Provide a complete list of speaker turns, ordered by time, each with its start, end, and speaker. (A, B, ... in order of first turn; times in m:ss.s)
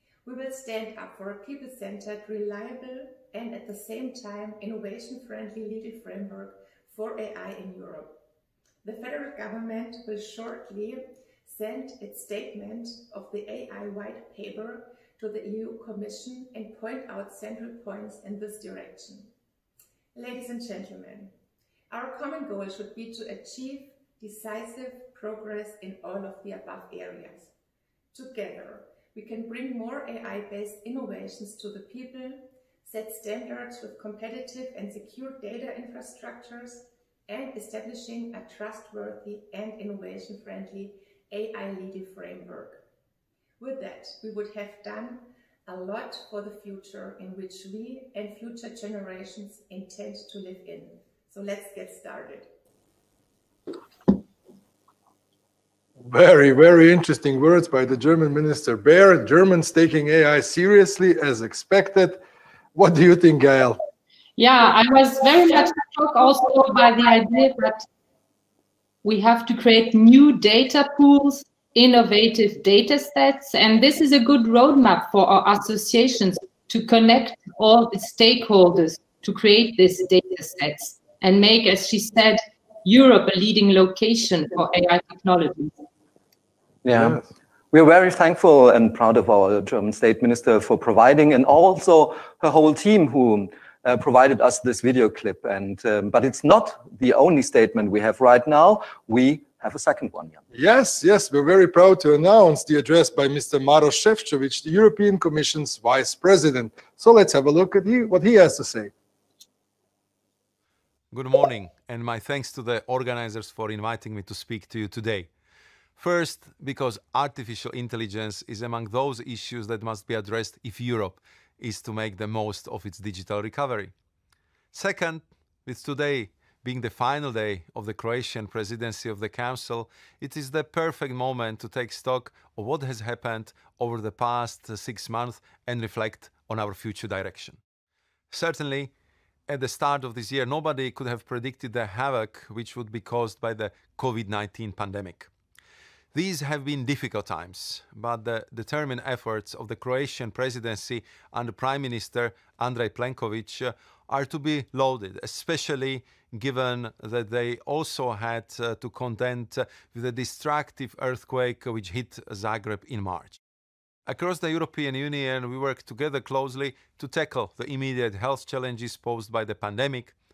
0:00.2-0:08.2 A
0:08.8-0:19.3 A
0:20.1-0:21.3 A
0:21.9-0:27.5 A
0:28.1-0:42.8 A
0:43.6-0:52.5 A
0:56.0-1:02.2 B
1:02.8-1:03.8 B
1:04.4-1:07.9 C
1:09.0-1:25.8 C
1:26.8-1:27.2 D
1:26.9-1:27.3 B
1:27.7-1:40.4 D
1:40.5-1:48.9 B
1:51.1-1:55.3 E
1:56.0-2:03.9 E
2:04.7-2:17.6 E
2:18.3-2:18.9 E
2:19.5-2:25.3 E
2:26.1-2:43.4 E
2:44.1-2:50.1 E